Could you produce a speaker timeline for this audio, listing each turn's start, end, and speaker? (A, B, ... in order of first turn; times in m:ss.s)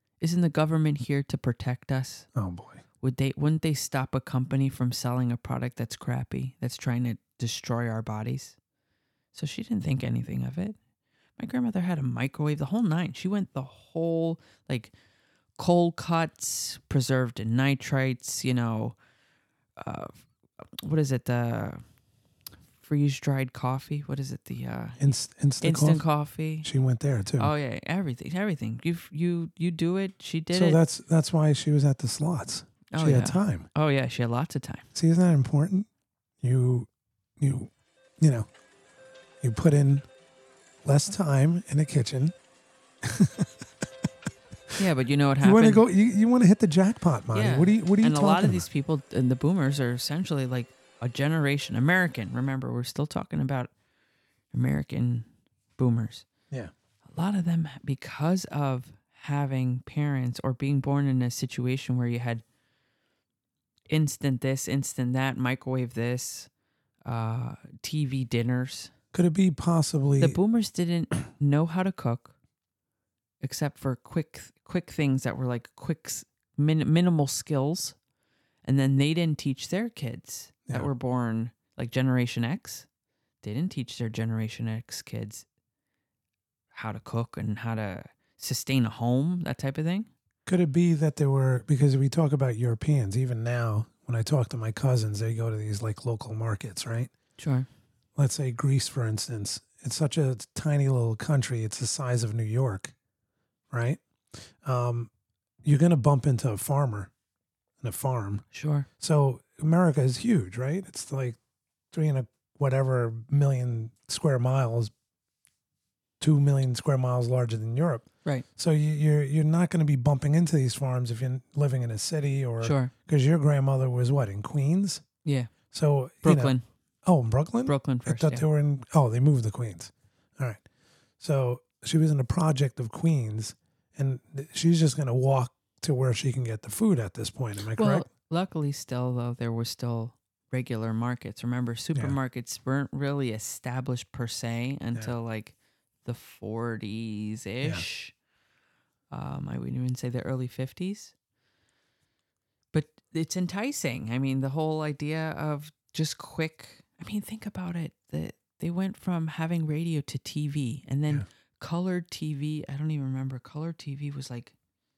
0:00.2-0:02.3 A
0:02.4-0:02.8 B
0:03.0-0:08.6 A
0:09.3-0:10.8 A
0:11.4-0:14.9 A
0:15.6-0:19.0 A
0:19.8-0:20.2 A
0:20.8-0:21.8 A
0:22.8-0:26.7 A
0:25.0-0:26.0 B
0:26.6-0:27.5 B
0:27.4-0:30.8 A
0:30.5-0:33.7 B
0:32.9-0:34.9 A
0:34.9-0:35.9 B
0:36.4-0:36.9 B
0:37.4-0:38.5 B
0:39.4-0:40.1 B
0:40.8-0:42.4 B
0:43.0-0:43.6 B
0:44.8-0:45.8 A
0:45.4-0:48.7 B
0:47.3-0:53.7 A
0:54.5-0:56.3 A
0:57.1-1:02.4 A
1:03.9-1:06.5 A
1:07.0-1:08.9 A
1:09.1-1:10.4 B
1:10.2-1:12.3 A
1:13.4-1:18.0 A
1:18.6-1:22.9 A
1:23.4-1:25.4 A
1:26.7-1:30.1 A
1:30.5-1:37.1 B
1:37.4-1:37.7 A
1:38.2-1:42.9 B
1:43.7-1:44.0 B
1:44.6-1:45.1 B
1:45.6-1:47.1 B
1:47.8-1:48.4 B
1:48.5-1:48.9 A
1:49.0-1:51.4 B
1:51.9-1:54.9 B
1:56.2-2:05.0 B
2:02.6-2:02.9 A
2:05.2-2:05.5 A
2:05.7-2:06.5 B
2:06.2-2:06.6 A
2:07.0-2:10.6 B
2:07.7-2:08.5 A
2:11.2-2:18.1 B
2:17.8-2:28.1 A
2:29.1-2:31.1 A
2:32.7-2:44.5 A